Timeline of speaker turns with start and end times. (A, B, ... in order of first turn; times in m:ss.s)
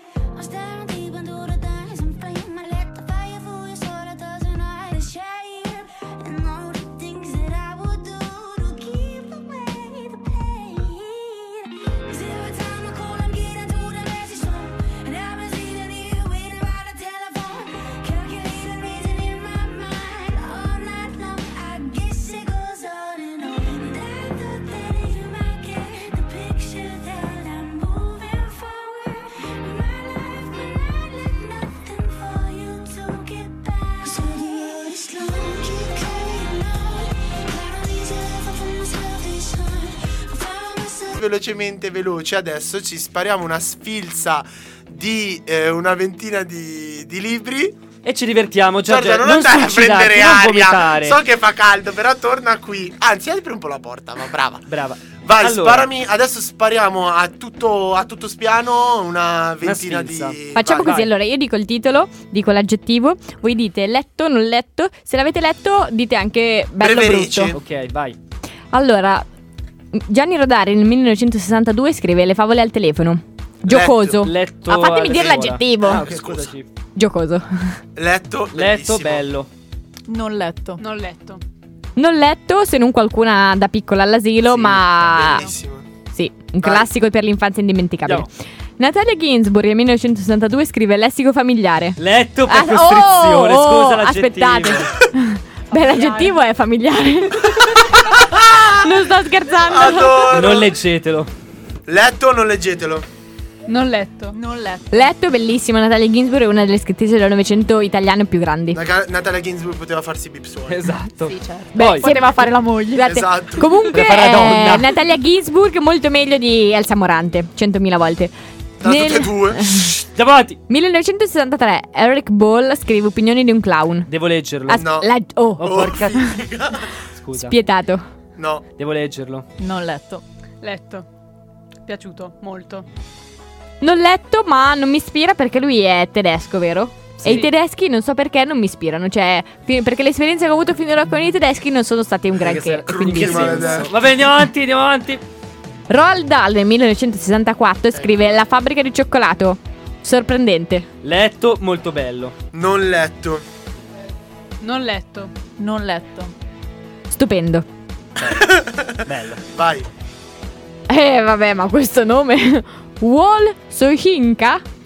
0:00.3-0:41.2 A
0:41.2-0:47.8 B
0:48.0-0:51.2 C
0:48.8-0:54.6 B
0:54.7-0:55.9 C
0:55.2-1:00.9 B
0:59.6-1:01.1 C
1:00.6-1:07.6 D
1:06.8-1:07.6 B
1:07.5-1:08.2 C
1:08.7-1:09.2 D
1:09.9-1:16.0 D
1:13.6-1:14.3 B
1:14.2-1:16.7 C
1:15.8-1:16.5 B
1:17.0-1:17.8 D
1:18.0-1:19.2 B
1:18.5-1:19.5 C
1:20.1-1:20.8 E
1:20.8-1:21.4 F
1:22.0-1:25.4 D
1:24.4-1:25.8 B
1:26.1-1:40.4 D
1:26.6-1:26.9 B
1:32.0-1:34.9 C
1:35.7-1:36.4 E
1:38.0-1:38.9 B
1:39.6-1:40.7 B
1:40.3-1:41.3 C
1:41.9-1:43.0 B
1:43.7-1:44.4 F
1:44.3-1:45.1 E
1:44.9-1:48.8 D
1:48.7-1:50.9 B
1:50.7-1:52.1 C
1:51.2-1:53.1 E
1:51.7-1:59.9 D
1:53.0-1:53.9 B
1:53.9-1:54.9 C
1:58.8-2:00.0 B
2:00.2-2:00.6 C
2:00.7-2:04.1 D
2:04.1-2:04.8 C
2:04.7-2:06.2 D
2:04.7-2:07.0 B
2:05.6-2:06.4 C
2:07.1-2:07.5 C
2:07.4-2:08.1 D
2:08.4-2:08.6 B
2:08.8-2:09.4 C
2:09.6-2:10.2 E
2:10.6-2:11.0 F
2:11.8-2:12.8 F
2:13.8-2:23.9 D
2:17.2-2:17.5 C
2:17.2-2:17.5 F
2:22.4-2:25.2 C
2:22.9-2:24.3 B
2:25.9-2:30.9 D
2:31.0-2:32.3 C
2:32.5-2:33.4 B
2:34.6-2:35.3 F
2:35.6-2:36.3 E
2:37.1-2:37.6 D
2:38.2-2:39.9 B
2:39.0-2:39.4 C
2:40.9-2:44.6 D